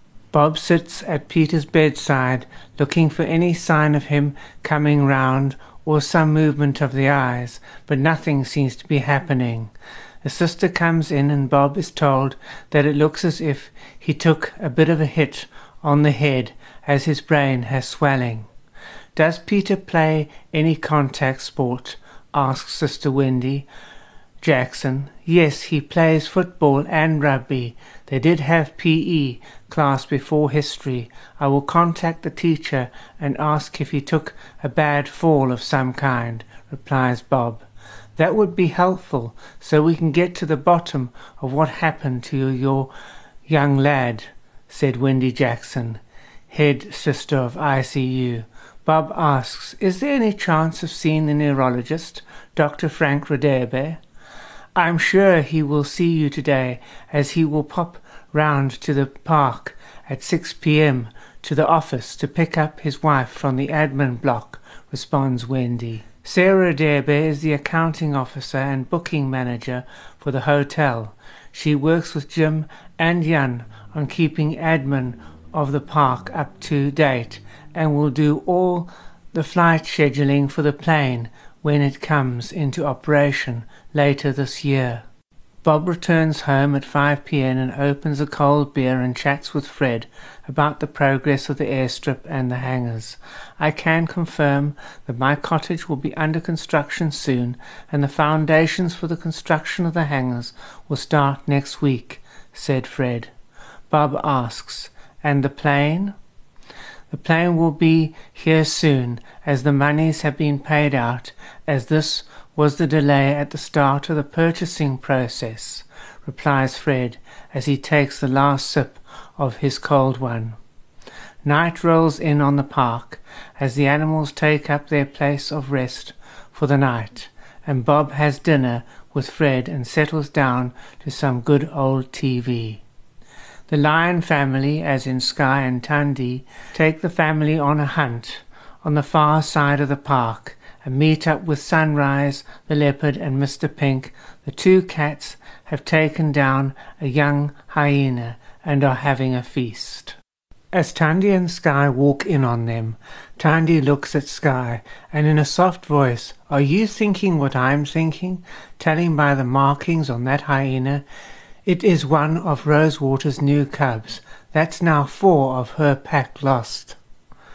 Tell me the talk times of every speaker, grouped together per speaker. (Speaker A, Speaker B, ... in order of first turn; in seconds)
Speaker A: 0.3-9.7, 10.2-18.5, 19.1-23.7, 24.4-42.9, 43.5-54.0, 54.8-85.0, 85.6-103.3, 103.9-106.2, 107.1-120.6, 121.4-132.8, 133.7-150.2, 150.7-161.0, 161.7-167.0